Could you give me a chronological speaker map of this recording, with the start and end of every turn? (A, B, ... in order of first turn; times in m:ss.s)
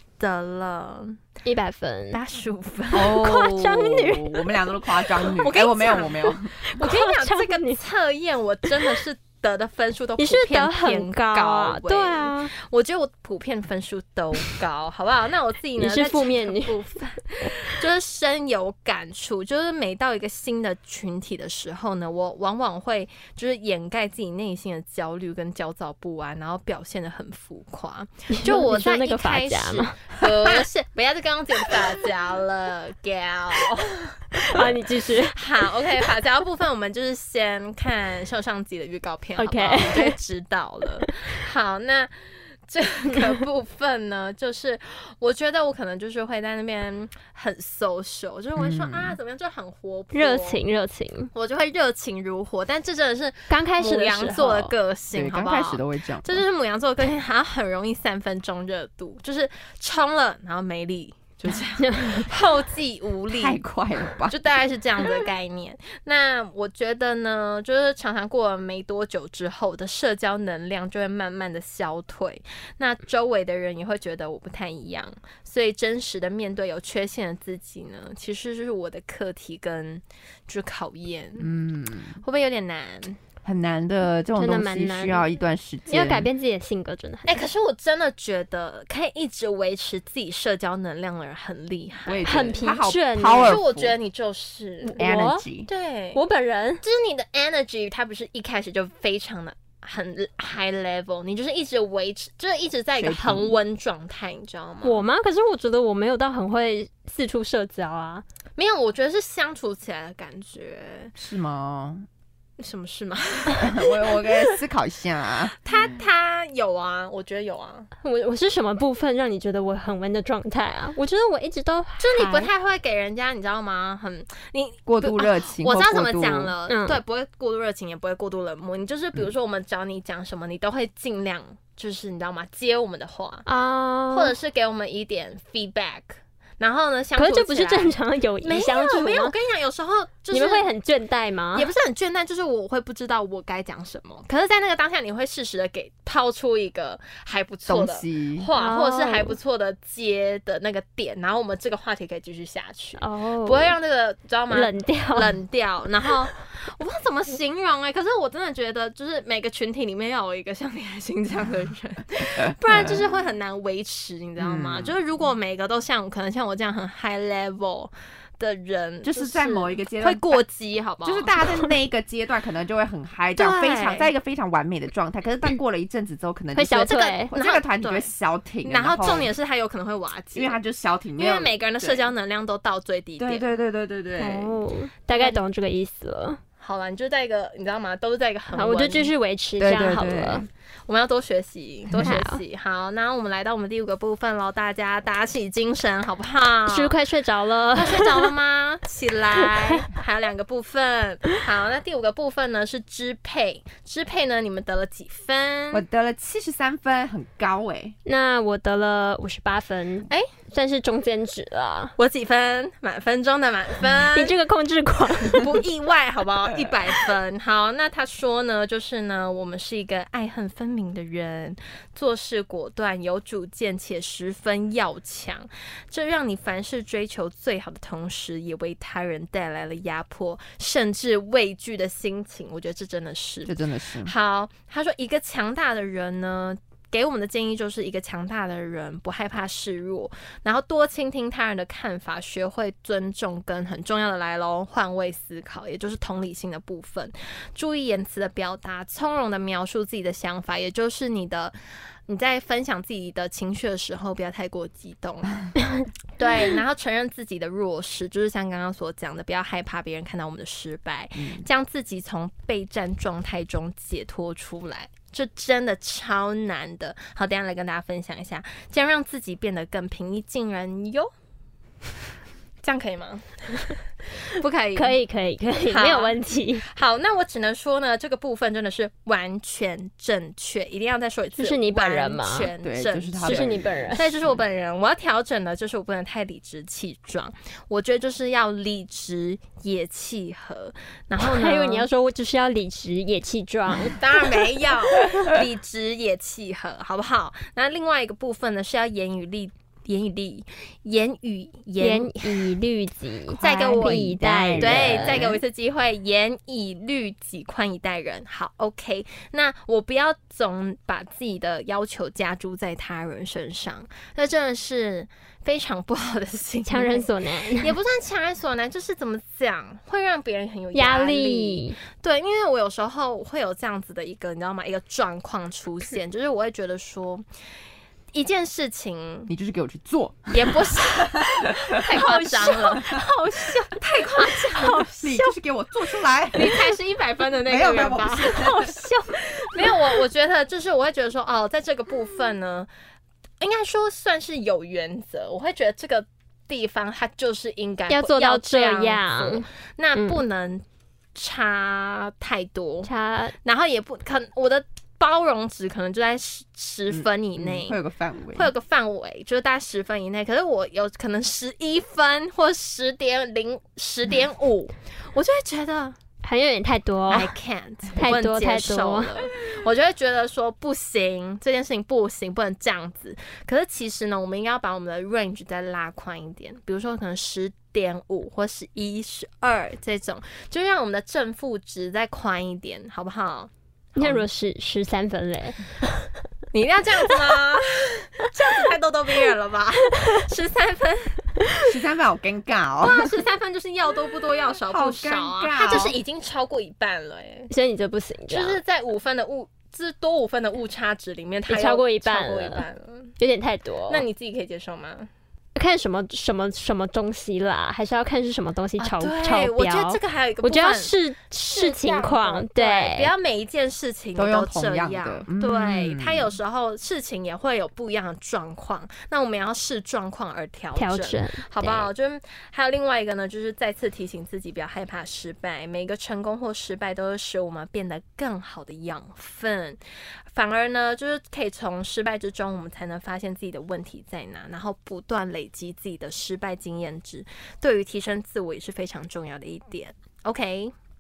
0:00.2-0:01.2 A
0:01.4-0:02.2 B
0:02.1-0:03.2 A
0:02.9-0:06.5 C
0:03.2-0:04.5 B
0:05.4-0:34.7 A
0:06.7-0:07.8 B
0:10.2-0:12.5 B
0:15.8-0:16.8 B
0:28.3-0:30.0 B
0:34.5-0:35.4 B
0:35.3-0:42.1 A
0:39.4-0:40.2 B
0:42.7-0:50.6 A
0:48.6-0:49.2 C
0:50.1-0:51.3 B
0:51.3-1:03.6 A
0:53.5-0:54.8 B
0:55.1-0:56.4 C
1:01.8-1:02.3 B
1:03.3-1:04.4 C
1:04.2-1:21.5 A
1:21.4-1:22.2 C
1:22.2-1:23.2 A
1:23.4-1:26.3 C
1:24.4-1:25.2 B
1:25.9-1:27.4 B
1:27.3-1:32.5 A
1:32.1-1:34.0 C
1:32.2-1:33.6 B
1:33.4-1:35.0 A
1:34.8-1:35.4 B
1:35.0-1:35.7 C
1:35.7-1:36.2 A
1:36.2-1:36.8 B
1:36.8-1:45.0 A
1:43.0-1:43.6 C
1:44.8-1:48.2 B
1:48.6-1:51.1 A
1:51.2-1:52.1 C
1:52.6-1:54.6 A
1:53.6-1:55.6 C
1:55.6-1:57.9 A
1:58.0-2:02.5 B
2:02.0-2:13.5 A
2:04.9-2:06.5 C
2:06.7-2:07.0 B
2:13.5-2:14.3 B
2:14.1-2:20.7 A
2:17.2-2:19.3 B
2:20.3-2:21.7 B
2:21.6-2:51.4 A
2:27.7-2:28.5 C
2:28.6-2:29.4 B
2:33.0-2:33.7 B
2:34.5-2:35.3 B
2:42.7-2:43.0 C
2:44.4-2:45.0 C
2:49.0-2:50.4 C
2:51.0-2:59.3 C
2:53.4-2:54.1 A
2:56.6-2:57.3 B
2:56.8-2:58.1 A
2:58.6-3:00.6 A
3:00.4-3:02.1 C
3:01.2-3:03.5 A
3:03.2-3:04.6 C
3:04.2-3:06.4 B
3:05.1-3:05.4 A
3:06.6-3:09.1 A
3:08.5-3:10.5 B
3:09.6-3:10.5 C
3:10.9-3:17.0 A
3:12.0-3:12.4 B
3:16.7-3:18.3 B
3:17.8-3:25.8 A
3:25.7-3:28.0 C
3:28.1-3:31.9 B
3:32.0-3:34.4 A
3:34.1-3:35.5 B
3:35.3-4:11.6 A
3:53.4-3:54.1 C
4:12.1-4:15.4 A
4:16.2-4:31.1 A
4:21.2-4:21.4 C
4:32.6-4:33.8 A
4:34.3-4:35.0 A
4:34.8-4:36.6 B
4:35.6-4:51.9 A
4:41.4-4:42.5 B
4:42.6-4:43.7 C
4:43.2-4:44.1 B
4:51.2-4:54.0 B
4:54.0-5:02.5 A
5:01.8-5:05.2 B
5:03.4-5:27.3 A
5:03.6-5:05.4 C
5:16.7-5:17.7 B
5:20.7-5:21.8 B
5:28.1-5:29.3 A
5:29.3-5:31.5 C
5:30.3-5:34.9 A
5:31.9-5:33.3 B
5:32.2-5:33.0 C
5:34.6-5:35.3 B
5:35.0-5:36.7 C
5:36.3-5:38.5 A
5:37.5-5:38.7 C
5:38.3-5:39.2 B
5:39.5-5:42.7 A
5:43.4-5:50.6 A
5:47.9-5:49.4 B
5:51.2-5:52.9 A
5:52.8-5:53.3 B
5:53.4-5:57.8 A
5:56.9-5:58.5 C
5:58.4-6:06.0 A
6:06.2-6:07.3 B
6:07.1-6:24.3 A
6:08.0-6:09.1 B
6:24.0-6:25.6 B
6:26.5-6:31.2 A
6:31.7-6:33.1 C
6:32.8-6:37.5 A
6:34.7-6:36.0 C
6:37.5-6:38.6 B
6:38.3-6:43.1 A
6:41.5-6:42.6 B
6:43.2-6:44.0 B
6:43.9-6:45.1 A
6:45.6-6:53.1 B
6:48.8-6:50.9 A
6:51.5-7:09.8 A
6:54.2-6:56.3 C
7:00.8-7:01.9 B
7:10.3-7:20.7 A